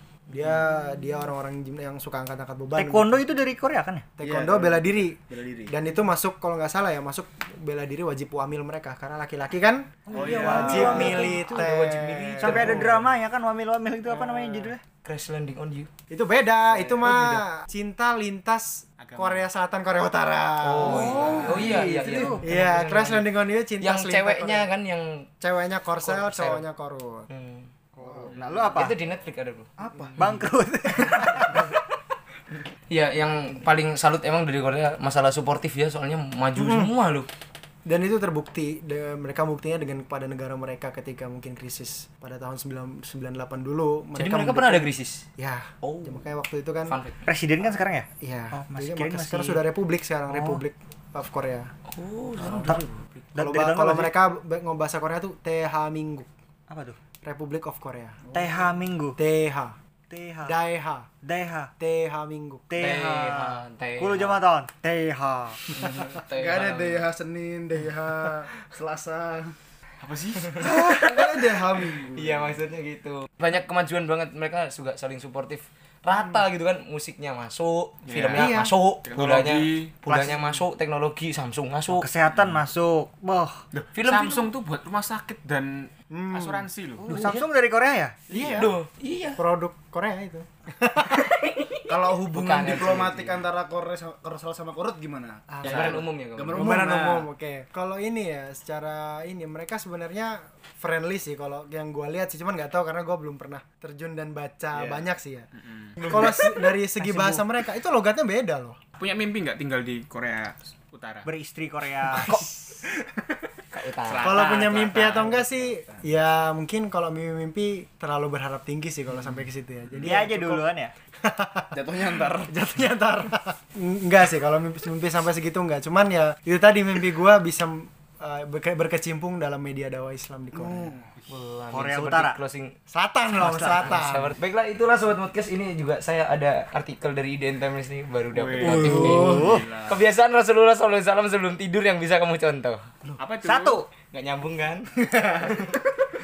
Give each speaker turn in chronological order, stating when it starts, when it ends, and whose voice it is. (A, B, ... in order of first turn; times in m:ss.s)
0:00.3-0:03.3 A
0:02.8-0:04.1 B
0:04.2-0:13.0 A
0:04.2-0:05.7 C
0:10.1-0:11.7 B
0:10.1-0:13.0 D
0:10.2-0:11.2 C
0:12.4-0:14.8 B
0:14.3-0:14.6 C
0:15.0-0:15.9 D
0:16.1-0:24.7 A
0:16.8-0:17.3 C
0:19.0-0:19.5 E
0:20.6-0:25.3 D
0:20.8-0:22.4 C
0:25.4-0:27.3 A
0:26.0-0:26.6 D
0:27.3-0:27.7 D
0:28.0-0:28.3 A
0:28.1-0:29.0 B
0:28.3-0:28.6 E
0:28.7-0:29.7 D
0:29.8-0:30.2 C
0:30.1-0:31.5 B
0:32.9-0:37.3 D
0:36.6-0:36.9 A
0:37.8-0:47.0 A
0:44.2-0:45.2 D
0:45.8-0:46.2 D
0:46.9-0:47.2 D
0:47.2-0:49.6 B
0:48.2-0:51.7 A
0:50.3-0:50.6 B
0:51.9-0:53.2 D
0:53.3-0:54.1 B
0:53.4-0:56.3 A
0:56.7-0:57.0 B
0:57.2-0:58.2 A
0:58.3-0:59.2 B
0:59.2-0:59.8 A
1:00.1-1:00.6 B
1:00.4-1:01.1 A
1:01.2-1:01.7 B
1:01.8-1:02.7 A
1:02.7-1:05.6 B
1:02.8-1:04.4 D
1:05.8-1:07.1 D
1:06.3-1:09.6 C
1:10.0-1:10.6 E
1:10.6-1:22.1 D
1:10.6-1:12.6 C
1:16.2-1:16.4 A
1:18.0-1:18.5 E
1:18.4-1:18.7 A
1:19.0-1:19.9 E
1:20.1-1:20.5 B
1:21.9-1:23.6 B
1:22.3-1:22.6 E
1:23.7-1:27.2 E
1:23.9-1:24.5 D
1:26.1-1:26.7 A
1:27.0-1:28.2 B
1:27.1-1:27.4 D
1:28.3-1:28.6 A
1:28.4-1:29.4 D
1:28.4-1:28.7 C
1:29.4-1:31.3 A
1:31.1-1:33.4 D
1:31.9-1:37.3 C
1:35.5-1:45.5 A
1:35.6-1:36.8 D
1:44.7-1:46.4 E
1:46.0-1:48.8 A
1:47.0-1:47.4 B
1:49.0-1:51.3 E
1:51.2-1:52.4 B
1:52.2-1:52.5 D
1:53.7-1:55.5 D
1:54.0-1:55.1 E
1:54.2-2:00.7 A
2:00.0-2:00.9 B
2:01.2-2:01.7 A
2:01.7-2:02.5 C
2:02.5-2:10.9 A
2:10.5-2:11.1 C
2:11.3-2:12.7 D
2:11.7-2:12.4 B
2:12.9-2:14.3 A
2:13.4-2:22.9 D
2:13.4-2:13.9 B
2:18.3-2:20.0 E
2:18.6-2:19.7 B
2:23.2-2:23.8 E
2:23.4-2:23.9 B
2:24.1-2:25.8 D
2:25.0-2:25.7 C